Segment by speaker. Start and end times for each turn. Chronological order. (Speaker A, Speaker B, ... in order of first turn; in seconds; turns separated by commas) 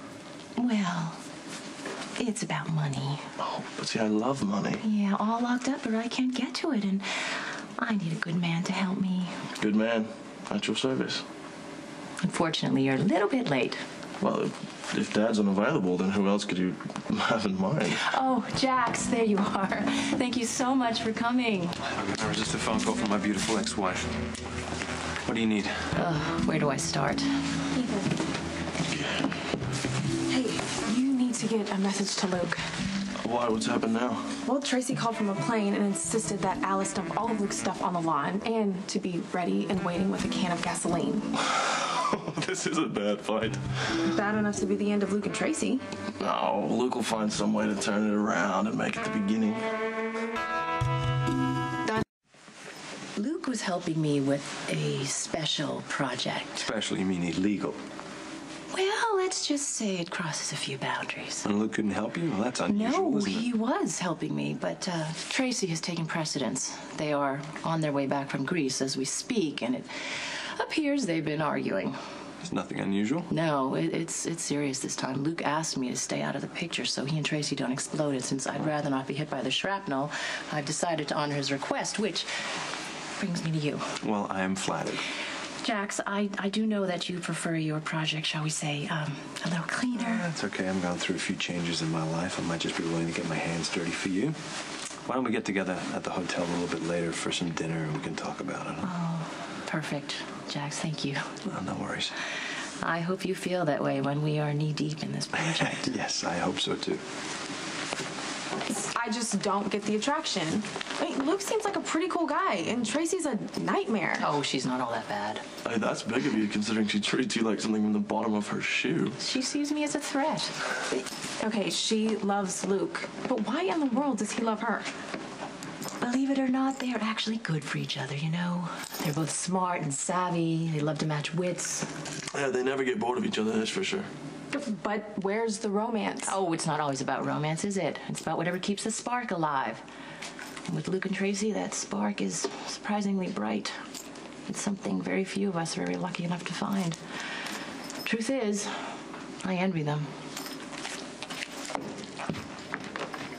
Speaker A: 0.6-1.2, Speaker A: 2.2-3.2, Speaker B: 3.4-4.8, Speaker A: 4.8-9.3, Speaker B: 9.6-11.2, Speaker A: 12.2-13.8, Speaker B: 14.2-18.0, Speaker A: 18.0-21.8, Speaker C: 21.9-24.2, Speaker C: 25.2-25.9, Speaker A: 26.0-27.3, Speaker D: 27.7-28.1, Speaker B: 28.9-29.3, Speaker D: 30.3-32.6, Speaker B: 33.2-34.3, Speaker D: 34.5-41.3, Speaker B: 41.5-43.9, Speaker D: 44.0-45.9, Speaker B: 46.2-49.6, Speaker A: 53.2-56.7, Speaker C: 56.6-57.8, Speaker A: 58.7-61.5, Speaker C: 61.4-63.5, Speaker A: 62.7-72.0, Speaker C: 72.4-73.3, Speaker A: 73.3-82.3, Speaker A: 83.2-83.9, Speaker C: 84.0-85.1, Speaker A: 85.6-90.3, Speaker C: 89.9-94.4, Speaker C: 95.1-98.9, Speaker A: 98.8-101.3, Speaker C: 101.5-102.1, Speaker A: 102.8-105.9, Speaker C: 105.4-107.0, Speaker D: 108.7-114.3, Speaker A: 114.2-115.4, Speaker B: 115.6-119.2, Speaker A: 119.2-120.5, Speaker D: 121.4-124.9, Speaker A: 126.0-131.9, Speaker B: 132.3-134.1, Speaker D: 134.5-136.3, Speaker A: 136.2-139.8, Speaker A: 140.7-143.8, Speaker A: 144.5-147.0, Speaker A: 148.0-150.1